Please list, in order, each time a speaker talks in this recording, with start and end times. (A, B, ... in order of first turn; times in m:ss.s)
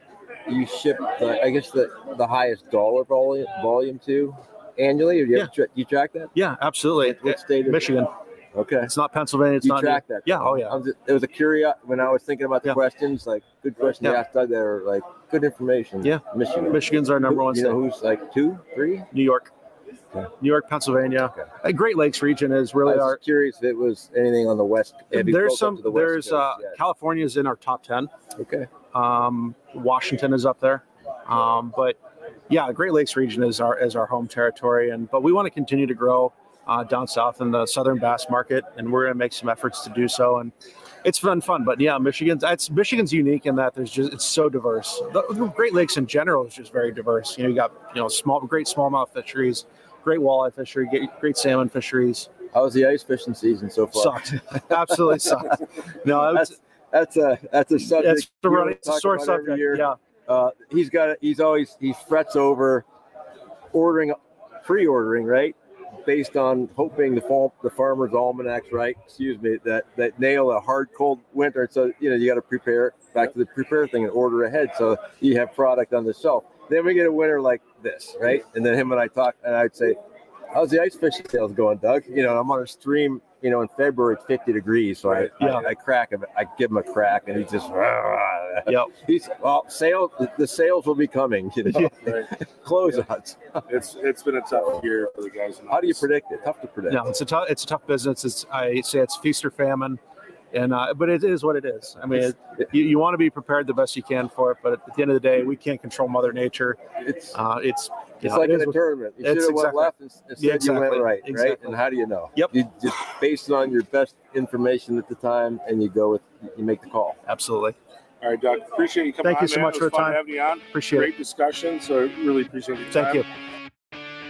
0:00.5-0:06.3 A
0:06.3-0:08.1 B
0:07.0-0:07.8 A
0:08.6-0:08.9 A
0:08.8-0:10.8 B
0:09.6-0:19.1 A
0:16.0-0:17.8 B
0:19.1-0:19.5 B
0:20.4-0:23.2 B
0:22.8-0:26.8 A
0:25.1-0:28.1 B
0:28.4-0:28.7 A
0:28.9-0:32.0 B
0:32.5-0:40.5 B
0:41.0-0:52.3 B
0:52.5-0:54.7 A
0:53.9-0:56.6 B
0:56.2-1:02.8 A
0:57.9-1:00.0 B
1:03.7-1:20.0 A
1:20.5-1:33.6 A
1:25.1-1:25.3 C
1:25.4-1:25.7 B
1:28.7-1:28.9 B
1:32.0-1:32.3 C
1:33.7-1:36.0 C
1:35.7-1:37.1 A
1:36.9-1:40.0 B
1:40.5-1:46.8 B
1:47.0-1:47.4 A
1:47.3-1:51.8 B
1:48.2-1:57.2 A
1:57.3-1:57.8 B
1:58.2-2:03.2 C
1:59.2-2:01.1 B
2:02.9-2:03.2 B